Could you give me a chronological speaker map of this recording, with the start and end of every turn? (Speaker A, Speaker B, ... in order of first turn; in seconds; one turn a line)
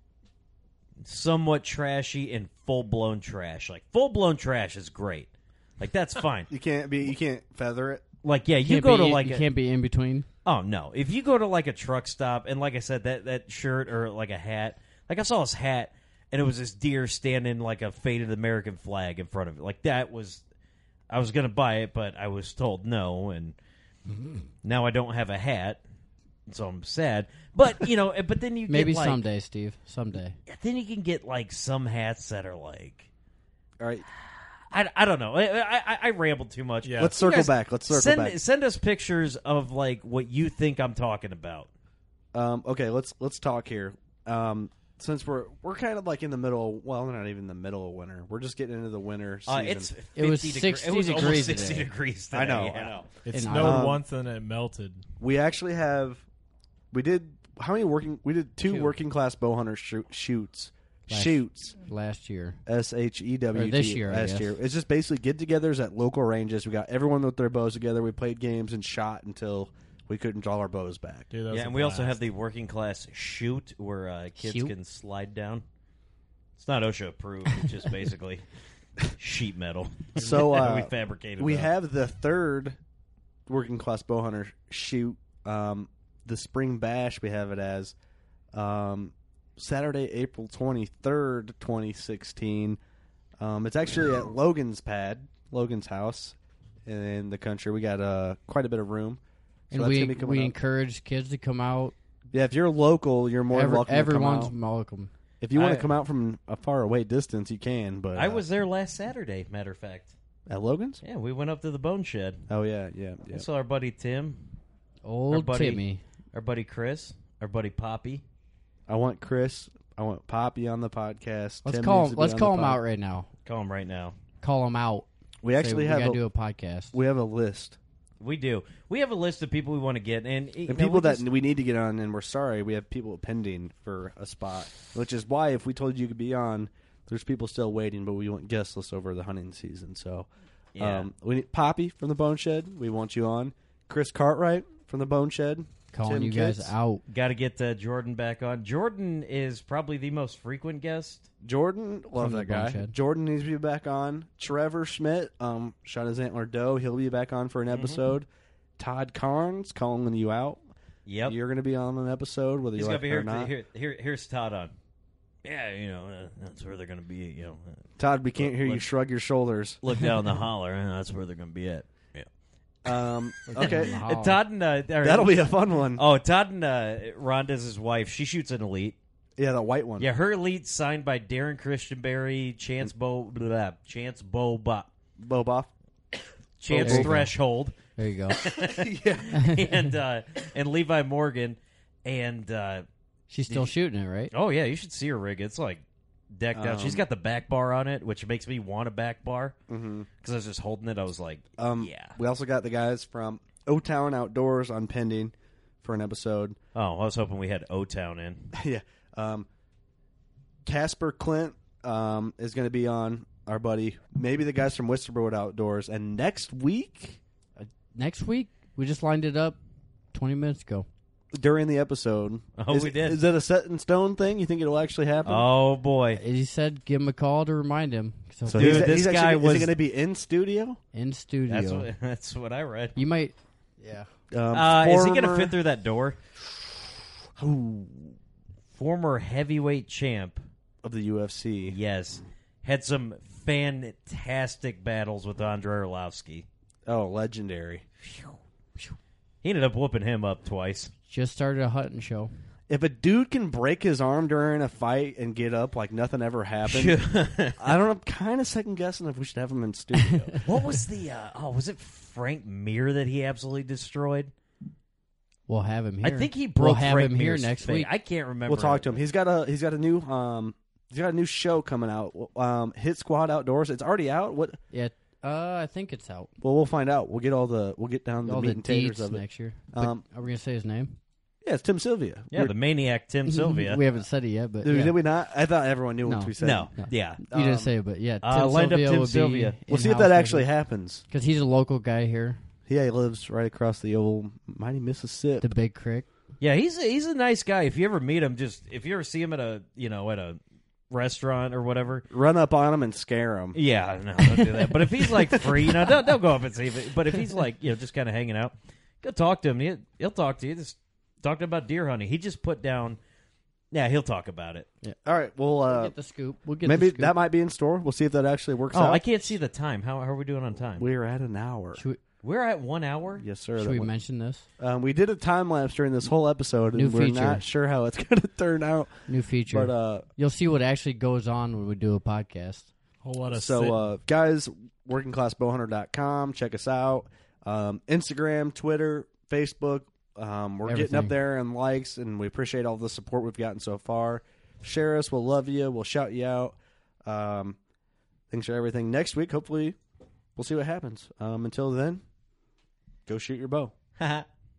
Speaker A: 1.0-6.5
Speaker B: 6.5-8.1
Speaker A: 8.2-9.4
Speaker C: 8.6-10.3
Speaker A: 10.4-20.4
Speaker A: 21.1-23.6
Speaker A: 24.6-25.8
Speaker A: 26.5-29.2
Speaker C: 28.7-30.4
Speaker A: 30.5-33.1
Speaker B: 33.8-34.0
Speaker A: 34.7-41.7
Speaker D: 36.8-37.2
Speaker B: 37.0-38.4
Speaker B: 42.3-49.9
Speaker A: 49.5-53.1
Speaker C: 50.1-51.9
Speaker B: 52.3-53.0
Speaker D: 53.2-55.0
Speaker C: 53.3-53.9
Speaker B: 53.5-54.0
Speaker B: 55.2-56.2
Speaker B: 56.9-61.8
Speaker C: 61.1-62.6
Speaker B: 62.6-71.3
Speaker C: 63.5-64.5
Speaker D: 71.3-72.2
Speaker A: 71.5-75.6
Speaker C: 74.4-74.7
Speaker A: 76.6-78.5
Speaker A: 79.1-81.7
Speaker B: 80.2-82.8
Speaker D: 80.2-80.6
Speaker B: 83.5-87.9
Speaker B: 88.5-92.8
Speaker B: 93.4-100.5
Speaker C: 99.7-101.9
Speaker B: 102.3-104.5
Speaker C: 103.5-105.1
Speaker B: 105.4-108.4
Speaker A: 105.5-105.9
Speaker A: 108.1-110.2
Speaker B: 110.5-111.0
Speaker A: 111.0-112.5
Speaker B: 112.5-113.5
Speaker A: 113.3-114.5
Speaker C: 115.0-116.0
Speaker A: 115.3-115.8
Speaker A: 116.3-118.2
Speaker B: 118.9-122.8
Speaker C: 121.6-123.3
Speaker A: 123.4-124.2
Speaker C: 124.4-127.0
Speaker B: 125.4-126.2
Speaker B: 126.9-127.8
Speaker A: 128.2-131.2
Speaker B: 130.7-140.3
Speaker A: 140.7-141.1
Speaker B: 140.8-146.7
Speaker C: 145.9-147.0
Speaker A: 147.1-151.3
Speaker B: 151.4-158.3
Speaker C: 152.2-152.9
Speaker A: 157.7-158.0
Speaker B: 158.8-160.6
Speaker A: 161.1-161.4
Speaker B: 161.2-163.5
Speaker A: 162.8-164.7
Speaker A: 165.4-168.8
Speaker B: 168.0-169.8
Speaker A: 169.8-172.3
Speaker B: 172.8-174.0
Speaker C: 173.5-174.4
Speaker A: 173.6-179.0
Speaker B: 175.0-176.0
Speaker B: 179.4-180.1
Speaker A: 180.0-184.9
Speaker B: 185.2-185.7
Speaker A: 186.6-187.7
Speaker B: 186.7-187.3
Speaker C: 186.7-187.3
Speaker C: 188.0-188.4
Speaker A: 188.3-192.8
Speaker B: 188.5-189.3
Speaker C: 189.3-189.6
Speaker C: 193.3-194.3
Speaker A: 193.5-193.7
Speaker A: 194.3-199.6
Speaker B: 196.5-197.0
Speaker B: 199.7-200.1
Speaker A: 200.2-202.2
Speaker B: 201.6-206.6
Speaker A: 206.7-208.5
Speaker B: 208.5-209.5
Speaker B: 210.6-217.2
Speaker C: 217.6-219.6
Speaker C: 220.1-220.9
Speaker B: 221.3-225.5
Speaker A: 222.6-223.2
Speaker A: 225.2-226.2
Speaker C: 226.2-228.9
Speaker B: 228.4-230.8
Speaker A: 228.5-229.7
Speaker C: 230.9-231.9
Speaker A: 231.5-232.9
Speaker C: 232.9-234.1
Speaker B: 234.3-235.5
Speaker A: 234.5-236.2
Speaker B: 237.4-238.2
Speaker A: 238.7-240.4
Speaker B: 240.8-241.8
Speaker A: 241.7-246.4
Speaker B: 246.8-247.8
Speaker A: 249.4-250.9
Speaker C: 251.1-252.3
Speaker B: 252.7-260.4
Speaker A: 256.6-257.6
Speaker A: 260.4-264.3
Speaker C: 265.5-267.9
Speaker A: 266.0-269.0
Speaker B: 268.5-274.6
Speaker C: 274.7-276.3
Speaker B: 276.4-280.0
Speaker C: 278.2-281.0
Speaker B: 281.4-282.5
Speaker A: 282.3-283.8
Speaker C: 283.3-284.9
Speaker B: 284.6-286.7
Speaker C: 286.0-290.5
Speaker A: 286.4-287.2
Speaker B: 287.3-287.7
Speaker A: 288.2-289.6
Speaker B: 289.7-291.0
Speaker C: 291.1-292.4
Speaker B: 292.7-295.5
Speaker C: 295.4-296.1
Speaker A: 296.4-300.4
Speaker A: 300.9-302.1
Speaker B: 302.1-303.6
Speaker A: 303.5-313.0
Speaker B: 305.1-306.0
Speaker A: 313.7-314.7
Speaker B: 315.0-315.9
Speaker C: 315.7-317.2
Speaker B: 316.6-319.0
Speaker A: 318.7-320.9
Speaker B: 320.7-321.8
Speaker A: 322.2-323.2
Speaker B: 323.2-323.9
Speaker C: 323.6-324.4
Speaker B: 324.6-330.1
Speaker C: 326.7-327.4
Speaker C: 329.1-332.7
Speaker D: 333.0-333.8
Speaker B: 333.3-347.6
Speaker C: 340.6-341.2
Speaker B: 348.3-349.8
Speaker B: 350.4-352.0
Speaker B: 353.1-353.7
Speaker A: 354.0-354.2